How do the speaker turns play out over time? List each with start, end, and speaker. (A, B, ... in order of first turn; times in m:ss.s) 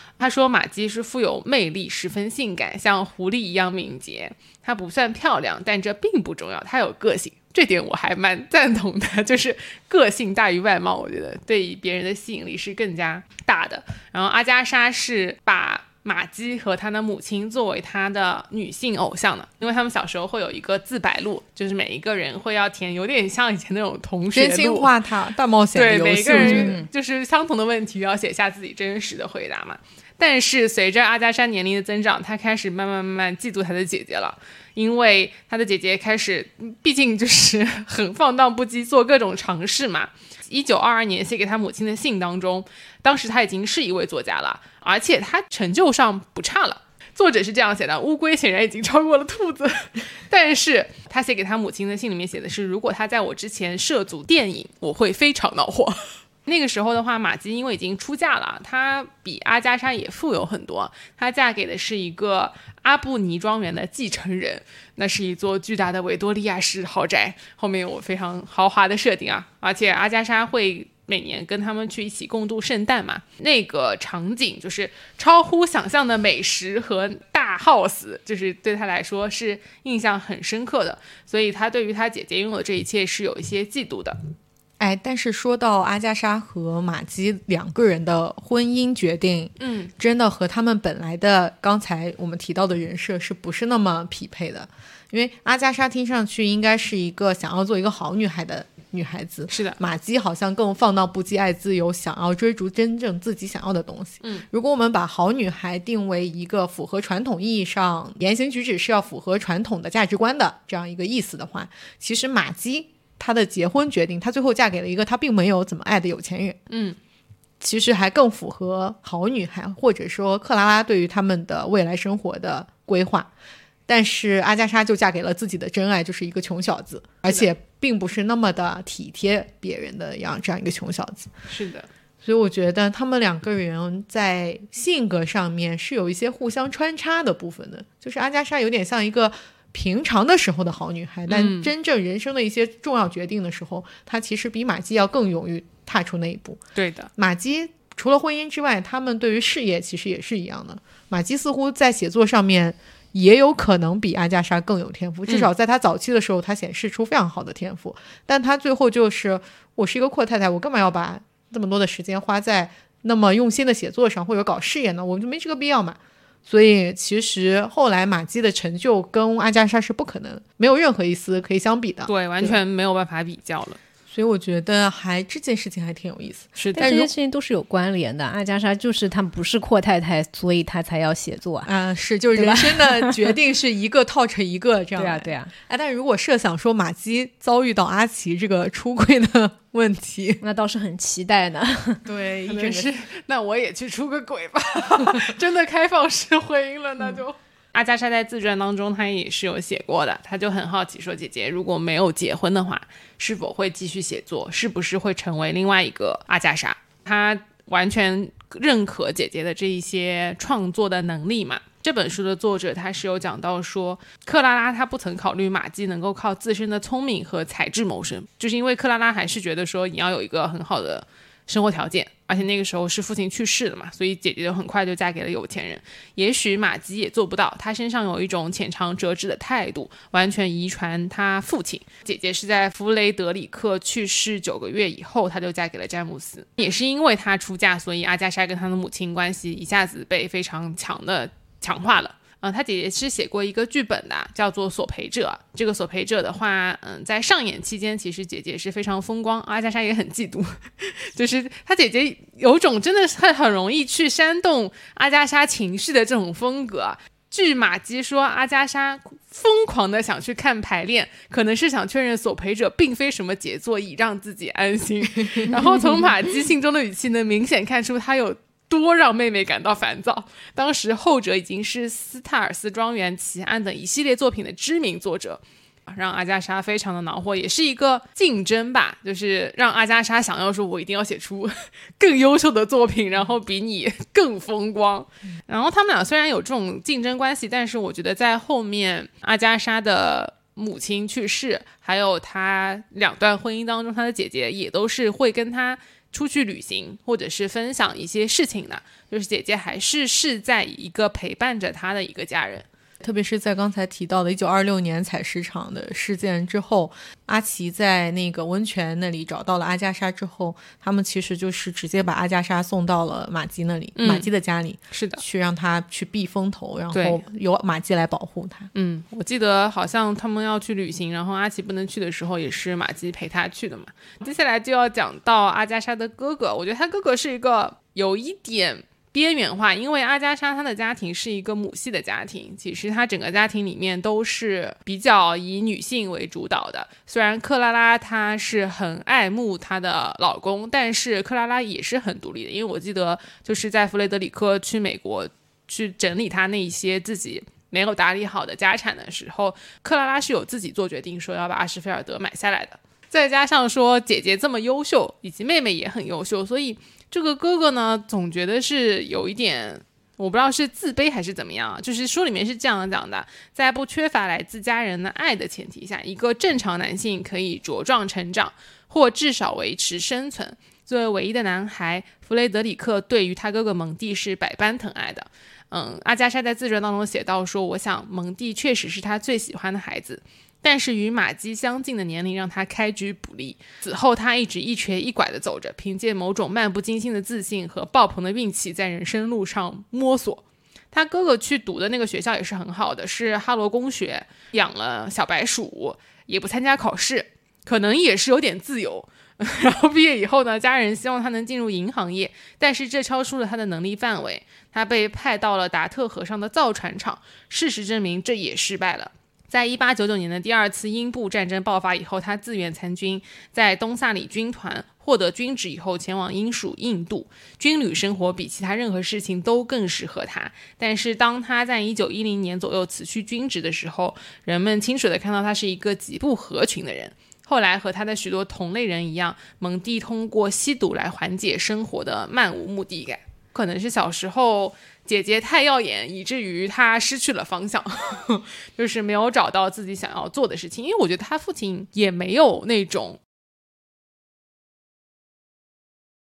0:00.2-0:24.9 A
0:24.3-0:26.8 B
0:25.7-1:24.2 A
0:26.4-0:26.9 C
1:24.8-1:56.6 B
1:29.6-1:29.9 A
1:39.5-1:39.8 A
1:56.7-1:57.0 A
1:57.6-2:03.3 B
2:03.9-2:11.3 B
2:11.5-2:11.9 A
2:12.2-2:26.6 B
2:21.3-2:21.7 A
2:26.8-2:27.1 A
2:27.2-2:52.6 B
2:52.1-2:53.8 A
2:54.1-2:57.1 B
2:56.6-2:56.9 A
2:56.8-3:01.7 C
3:01.6-3:10.4 B
3:02.4-3:03.3 C
3:05.0-3:05.5 C
3:10.4-3:12.0 C
3:12.0-3:12.9 B
3:12.4-5:02.7 A
5:03.0-5:18.7 B
5:14.0-5:14.3 A
5:14.9-5:15.2 A
5:16.9-5:17.2 A
5:18.7-7:23.2 A